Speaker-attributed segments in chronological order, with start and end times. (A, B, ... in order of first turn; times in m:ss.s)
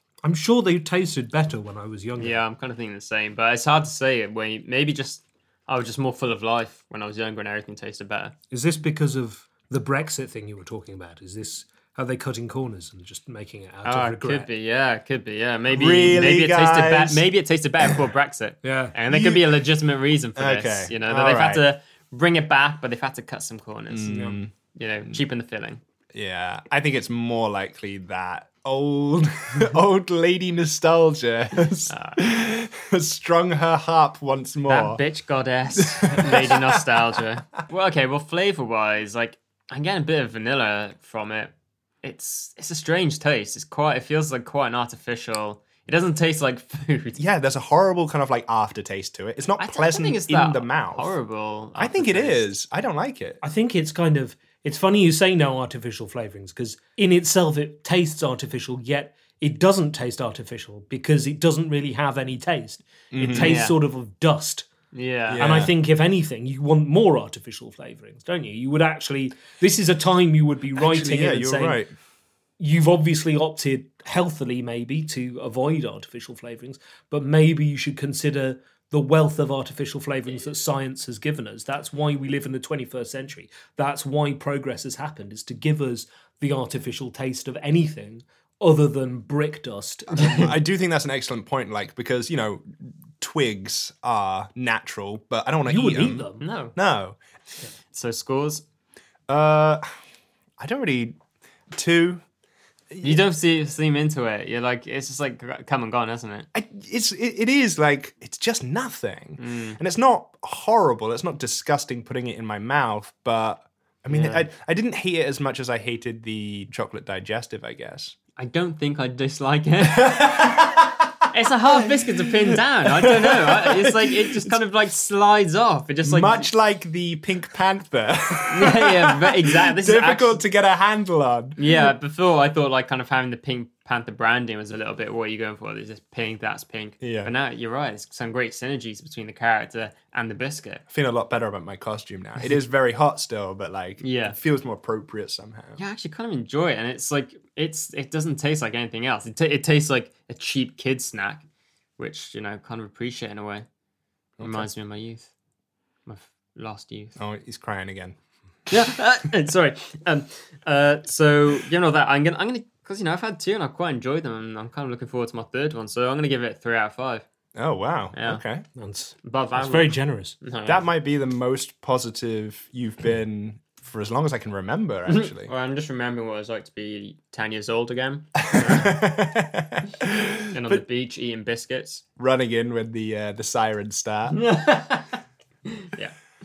0:00.2-0:02.4 A
0:02.2-0:08.4 B
0:08.5-0:14.5 A
0:13.8-0:25.8 B
0:15.7-0:17.2 C
0:18.6-0:18.9 A
0:19.1-0:19.6 C
0:20.4-0:21.6 C
0:23.9-0:24.5 C
0:24.1-0:24.4 A
0:26.1-0:35.0 C
0:31.9-0:32.2 B
0:34.7-0:47.2 B
0:35.8-0:37.2 C
0:47.2-0:51.2 C
0:49.6-0:52.5 B
0:51.8-0:53.4 C
0:53.4-1:04.7 A
1:03.1-1:03.6 C
1:03.3-1:03.8 B
1:04.9-1:05.5 B
1:05.3-1:05.7 C
1:05.4-1:11.8 A
1:10.8-1:11.9 C
1:12.6-1:30.5 A
1:30.2-1:37.2 C
1:35.6-1:36.5 A
1:36.4-1:36.8 B
1:37.9-1:38.6 B
1:39.3-1:39.9 C
1:40.6-1:41.2 C
1:41.7-1:42.2 C
1:42.9-1:43.2 C
1:43.0-1:46.5 B
1:46.5-1:58.2 C
1:49.4-1:49.8 B
1:54.1-1:54.5 B
1:58.4-2:00.8 B
1:59.9-2:01.1 C
2:01.3-2:06.5 B
2:01.8-2:04.6 C
2:06.0-2:11.8 C
2:08.5-2:10.4 B
2:11.6-2:20.8 B
2:17.0-2:17.3 C
2:20.9-2:25.8 C
2:24.0-2:24.4 B
2:25.8-2:31.4 B
2:32.0-2:33.6 B
2:34.4-2:34.7 C
2:34.4-2:35.3 B
2:36.0-2:37.2 B
2:37.2-2:38.2 C
2:38.7-2:47.2 B
2:47.6-2:48.6 C
2:48.1-2:48.4 B
2:48.8-2:50.4 A
2:49.2-2:50.9 B
2:50.6-2:55.5 C
2:55.1-2:59.0 B
2:58.4-3:00.8 C
3:00.5-3:02.0 B
3:02.2-3:04.4 C
3:04.4-3:05.1 B
3:05.7-3:06.2 B